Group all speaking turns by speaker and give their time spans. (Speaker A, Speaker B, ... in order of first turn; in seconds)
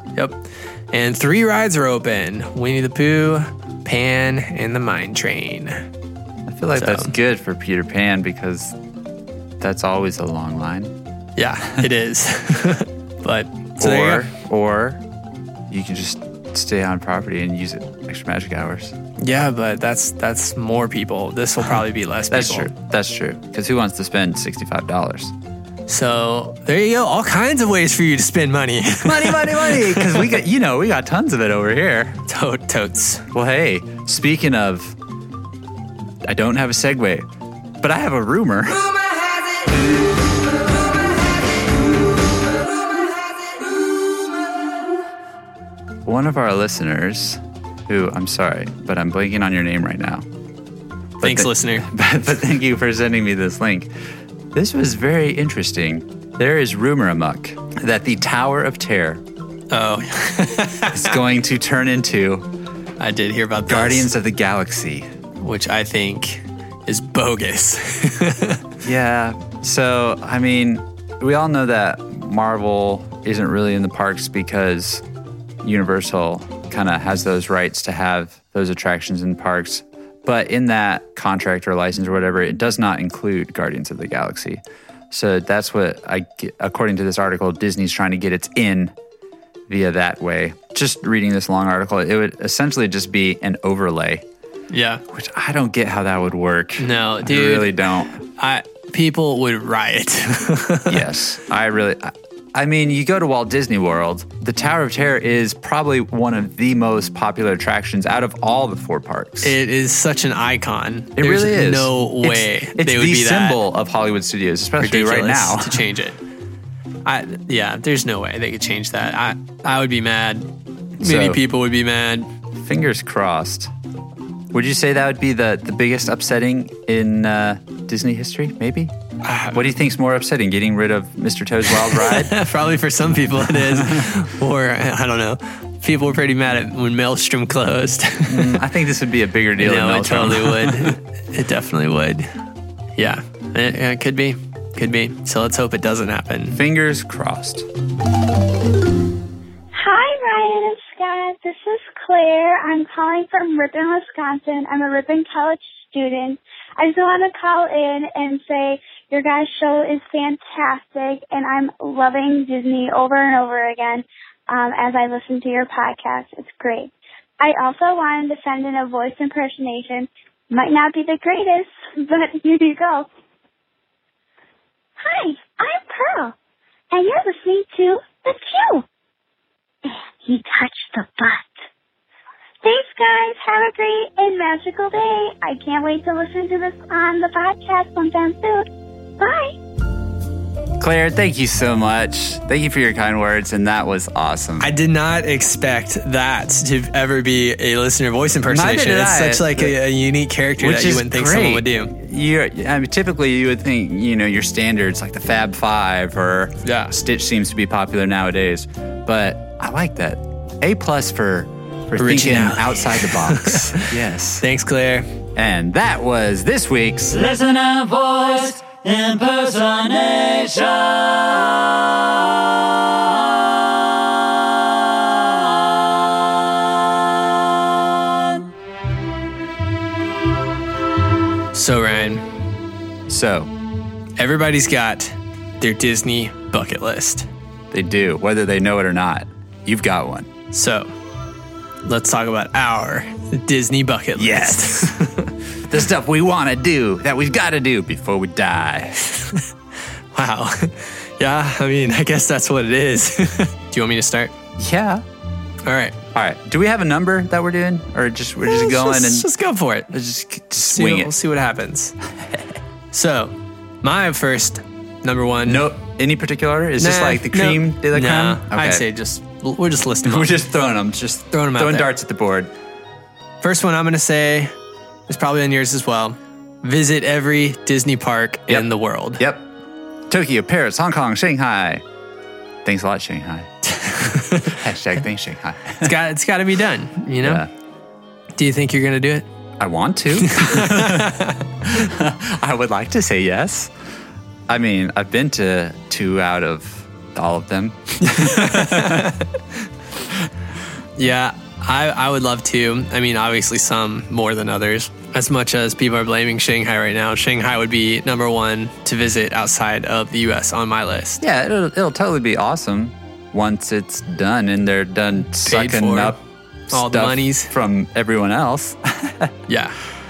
Speaker A: 0.1-5.8, 6.8-7.1, 11.4-14.3, 19.2-22.7, 25.9-30.4, 32.3-33.3, 51.2-51.9, 59.7-61.1, 63.0-64.1, 65.4-68.6, 94.7-95.0, 96.8-101.1, 109.4-113.6, 114.8-116.2, 117.0-122.3, 129.2-129.7, 131.7-138.6, 139.6-142.3, 143.0-146.6, 194.6-201.9, 206.6-206.9, 212.0-215.1, 231.5-232.3, 234.2-237.3, 240.5-240.9, 241.8-245.3, 249.2-249.4, 250.1-254.3, 255.7-256.0, 258.4-259.9, 260.7-262.0, 262.9-265.7, 266.8-270.4, 271.3-271.9, 273.4-274.5, 275.1-279.2, 284.0-284.6, 285.8-287.4, 288.3-289.2, 290.2-291.4, 298.0-299.3, 301.0-311.2, 315.3-316.2, 316.7-317.5, 319.5-319.8
Speaker B: 6.5-8.8, 9.6-10.9, 13.8-15.0, 15.7-19.0, 22.3-25.3, 29.0-32.2, 33.3-35.0, 36.2-37.3, 37.8-38.9, 46.0-50.2, 51.2-53.9, 54.5-59.2, 60.9-62.5, 63.6-65.1, 68.8-75.0, 75.6-88.9, 89.7-94.2, 95.1-98.1, 100.9-109.6, 111.2-115.8, 121.0-121.4, 122.5-123.7, 124.5-128.9, 129.5-132.4, 133.5-134.1, 138.3-141.0, 146.5-147.7, 190.8-194.7, 198.4-199.8, 200.6-214.4, 215.3-226.2, 226.9-228.4, 233.1-233.5, 237.7-240.3, 244.2-244.9, 245.7-249.0, 254.6-255.0, 256.1-259.3, 259.9-261.1, 265.4-268.8, 270.0-272.5, 278.5-279.5, 280.1-281.8, 282.6-286.0, 287.2-287.5, 289.6-293.7, 294.5-299.2, 311.2-319.3
Speaker C: 149.7-173.1, 175.0-176.3, 176.9-178.8, 179.8-181.5, 182.6-188.7, 189.2-189.6